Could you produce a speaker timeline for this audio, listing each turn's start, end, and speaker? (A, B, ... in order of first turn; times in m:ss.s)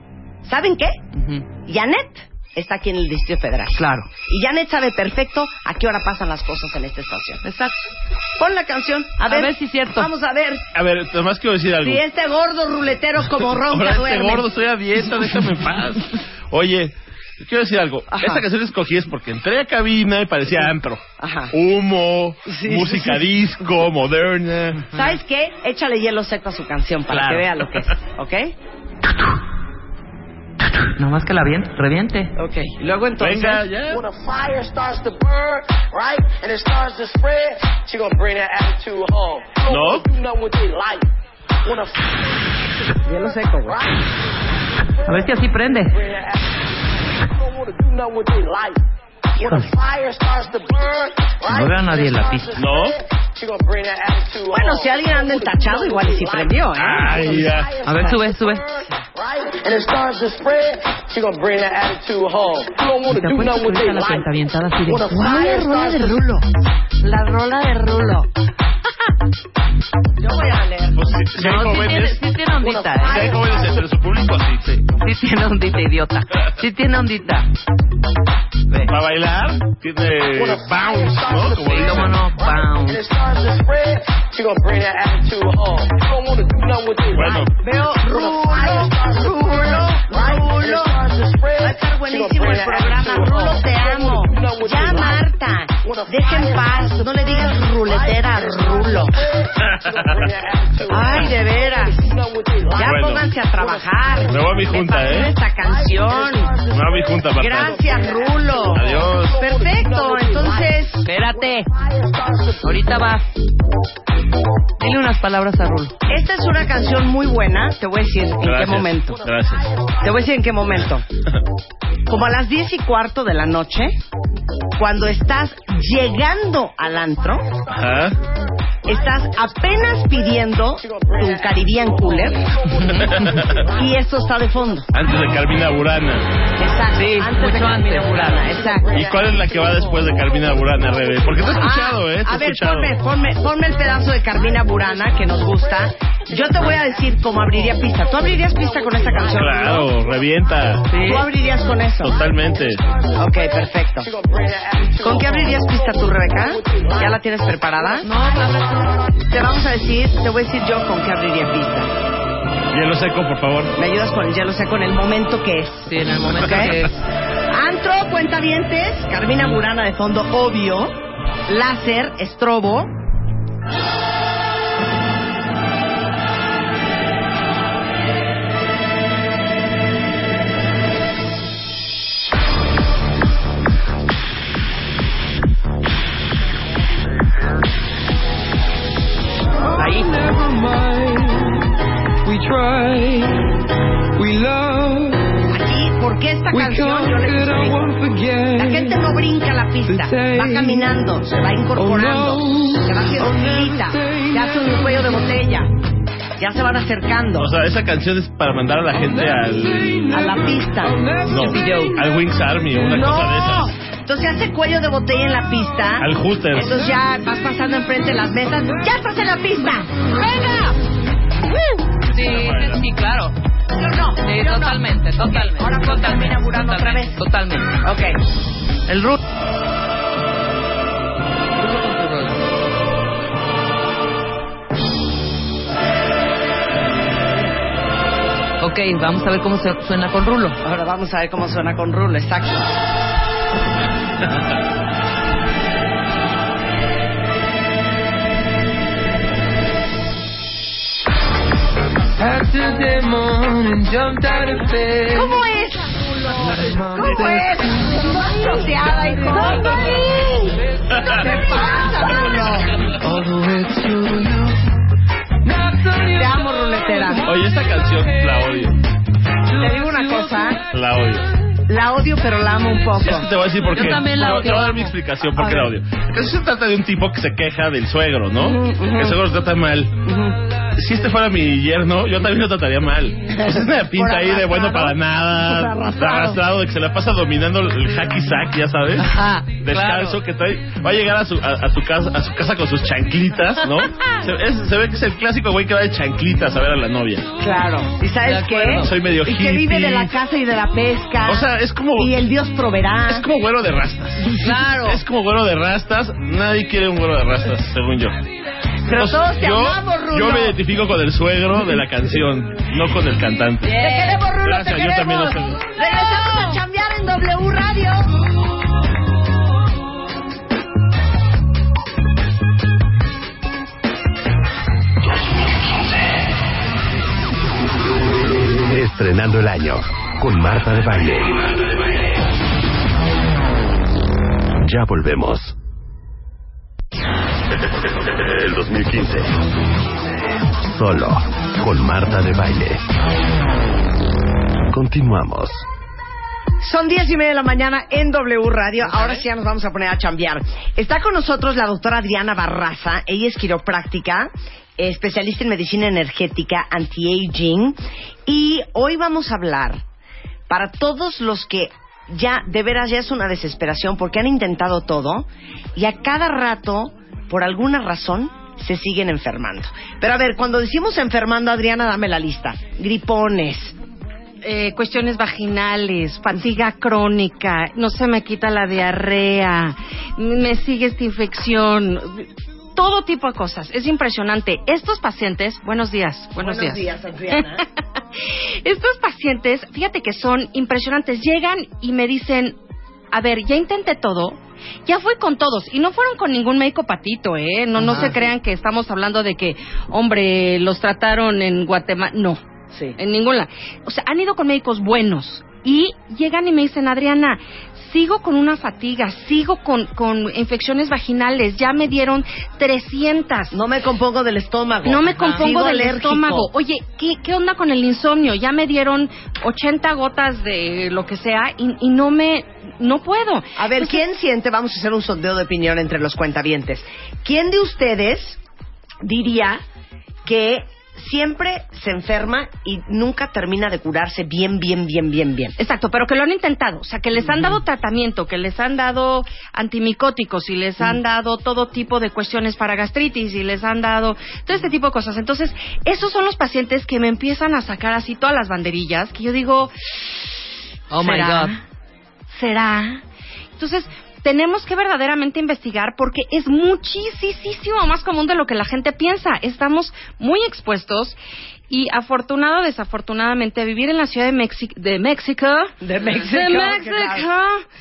0:00.4-0:01.0 A
0:01.1-0:01.5 B
0:01.6-0:07.4 A
0:03.7-0:04.1 B
0:07.4-0:07.7 B
0:08.4-0:10.6 A
0:09.2-0:10.1 B
0:10.7-0:12.0 C
0:11.8-0:14.5 A
0:13.6-0:24.8 C
0:18.1-0:18.4 A
0:21.2-0:21.5 A
0:22.4-0:23.3 A
0:24.9-0:28.5 A
0:27.1-0:27.9 C
0:31.0-0:32.3 B
0:32.4-0:33.6 A
0:33.2-0:34.0 C
0:33.9-0:41.1 D
0:39.7-0:40.1 C
0:41.6-0:42.2 D
0:43.0-0:43.8 A
0:43.6-0:46.6 D
0:45.0-0:46.0 B
0:47.2-0:48.8 D
0:49.4-1:06.2 D
0:49.4-0:49.7 B
0:51.5-0:52.6 B
0:52.6-0:53.0 C
0:54.5-0:57.3 A
0:56.8-0:57.7 C
0:57.8-0:58.6 B
1:03.0-1:06.4 B
1:07.0-1:08.2 B
1:10.2-1:11.1 A
1:11.0-1:12.2 C
1:11.3-1:13.4 B
1:12.6-1:13.9 D
1:13.0-1:14.7 C
1:14.6-1:17.5 B
1:18.8-1:22.1 C
1:20.3-1:35.2 D
1:21.6-1:23.0 B
1:27.1-1:27.5 C
1:27.6-1:31.0 A
1:31.6-1:39.2 A
1:35.8-1:53.0 D
1:39.6-1:40.2 C
1:40.9-1:42.1 A
1:42.7-1:46.5 A
1:42.8-1:43.3 C
1:44.2-1:45.3 C
1:46.7-1:47.8 C
1:47.4-1:51.1 A
1:48.7-1:49.4 C
1:51.0-1:51.7 B
1:52.6-1:53.3 B
1:54.8-1:55.9 B
1:56.1-1:59.2 A
1:58.4-1:59.7 C
1:59.1-2:00.1 D
2:00.0-2:01.0 A
2:02.1-2:04.0 A
2:04.8-2:07.4 A
2:06.9-2:08.3 D
2:07.7-2:08.2 C
2:08.8-2:14.0 D
2:08.8-2:12.6 A
2:12.7-2:13.4 B
2:12.8-2:13.6 C
2:13.7-2:14.9 A
2:14.7-2:15.0 D
2:14.9-2:16.3 C
2:16.6-2:19.0 A
2:16.9-2:18.5 B
2:18.1-2:21.9 D
2:18.9-2:23.0 C
2:21.5-2:29.9 A
2:23.7-2:30.8 D
2:29.2-2:30.9 C
2:30.9-2:31.3 B
2:31.0-2:32.1 A
2:31.4-2:39.2 D
2:32.0-2:32.8 C
2:33.2-2:34.1 A
2:35.0-2:38.1 A
2:38.0-2:38.9 B
2:39.2-2:41.9 A
2:42.7-2:43.7 C
2:43.8-2:46.8 A
2:45.8-2:46.9 B
2:47.5-2:53.0 A
3:09.7-3:11.6 E
3:09.8-3:10.1 B
3:12.2-3:13.5 E
3:14.1-3:15.4 E
3:15.5-3:17.8 A
3:16.5-3:19.1 E
3:18.6-3:25.7 A
3:19.8-3:20.9 E
3:21.8-3:25.3 E
3:26.4-3:27.5 A
3:27.4-3:30.1 C
3:29.0-3:31.9 E
3:30.1-3:32.0 A
3:31.2-3:33.7 C
3:32.9-3:40.8 A
3:36.0-3:36.8 C
3:41.4-3:41.8 A
3:42.1-3:43.3 B
3:42.2-3:42.8 C
3:43.7-3:47.2 A
3:44.2-3:47.7 B
3:47.8-3:48.2 A
3:48.9-3:49.2 B
3:51.6-3:52.4 B
3:58.6-4:00.6 B
4:00.6-4:02.7 A
4:12.2-4:15.4 E
4:15.1-4:22.7 A
4:16.5-4:20.0 E
4:20.9-4:21.9 E
4:20.9-4:21.3 C
4:23.0-4:24.6 E
4:25.5-4:27.2 E
4:26.1-4:27.3 A
4:27.2-4:28.8 C
4:29.5-4:30.6 A
4:29.6-4:30.5 E
4:30.7-4:31.3 C
4:31.7-4:33.3 A
4:33.0-4:39.9 C
4:33.7-4:34.9 B
4:38.4-4:39.2 A
4:40.0-4:40.4 A
4:40.8-4:57.3 C
4:43.3-4:46.4 A
4:49.0-4:50.2 B
4:57.4-5:03.3 A
4:58.2-4:58.9 B
4:58.8-5:00.1 C
5:01.2-5:02.1 C
5:03.1-5:08.2 C
5:04.4-5:05.0 B
5:08.9-5:10.6 A
5:08.9-5:13.8 C
5:13.6-5:18.2 A
5:13.7-5:14.2 B
5:14.4-5:15.6 C
5:28.4-5:31.5 F
5:34.6-5:35.5 F
5:38.3-5:39.4 F
5:40.6-5:42.8 F
5:44.7-5:45.6 F
5:46.6-5:59.8 A
6:00.5-6:13.7 A
6:14.4-6:32.6 G
6:26.4-6:27.6 A
6:33.1-6:42.4 G
6:37.8-6:38.1 B
6:37.8-6:38.3 A
6:42.7-6:43.0 A
6:43.0-6:53.6 G
6:53.5-6:56.5 A
6:54.8-7:04.0 G
6:55.2-6:55.5 B
7:03.6-7:08.4 A
7:09.0-7:09.6 A
7:10.2-7:15.6 A
7:15.6-7:30.3 G
7:17.2-7:17.6 A
7:30.9-7:31.5 B
7:31.0-7:31.6 G
7:32.3-7:33.0 G
7:33.6-7:41.2 G
7:41.7-7:47.6 G
7:45.8-7:47.2 A